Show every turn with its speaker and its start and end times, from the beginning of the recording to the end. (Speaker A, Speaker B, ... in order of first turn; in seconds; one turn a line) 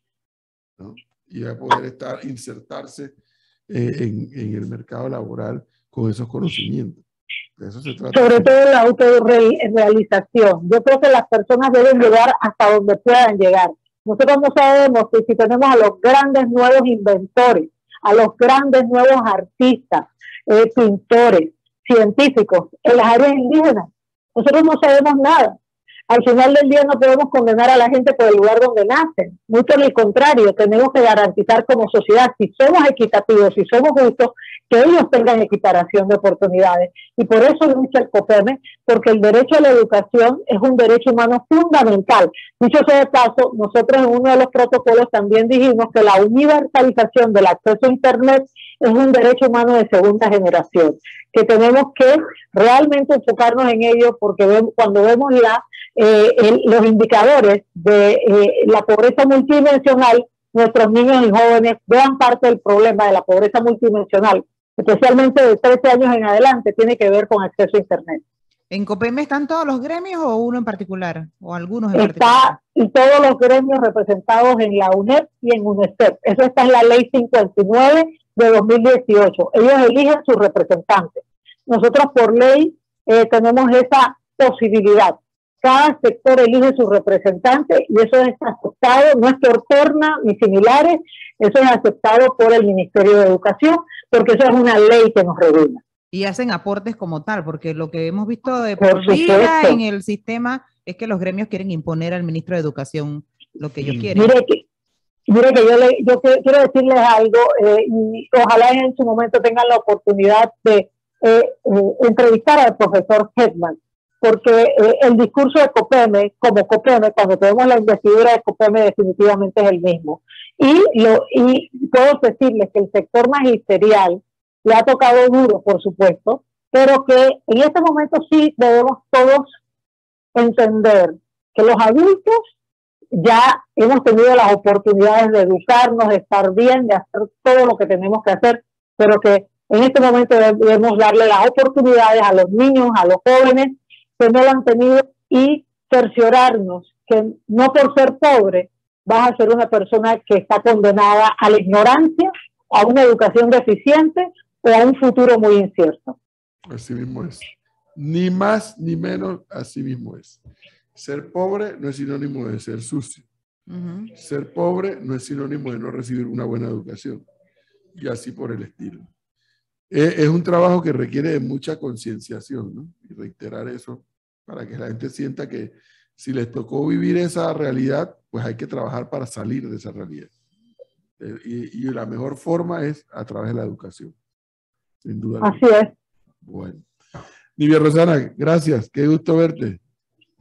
Speaker A: 0.8-3.1
Speaker A: 3.7-7.0
Speaker A: 7.6-8.5
Speaker B: 8.1-25.5
Speaker B: 26.1-68.2
Speaker C: 68.7-72.6
Speaker B: 71.9-95.8
Speaker C: 96.1-104.3
Speaker B: 98.8-99.8
Speaker B: 104.1-104.6
Speaker B: 105.3-129.5
Speaker B: 130.3-132.5
Speaker B: 133.2-156.2
Speaker A: 156.7-160.4
Speaker A: 160.9-163.2
Speaker C: 163.7-164.1
Speaker A: 164.1-167.2
Speaker A: 167.9-169.1
Speaker A: 169.9-180.3
Speaker A: 181.2-184.1
Speaker A: 185.0-185.6
Speaker B: 185.4-185.9
Speaker A: 186.4-186.8
Speaker A: 187.6-189.8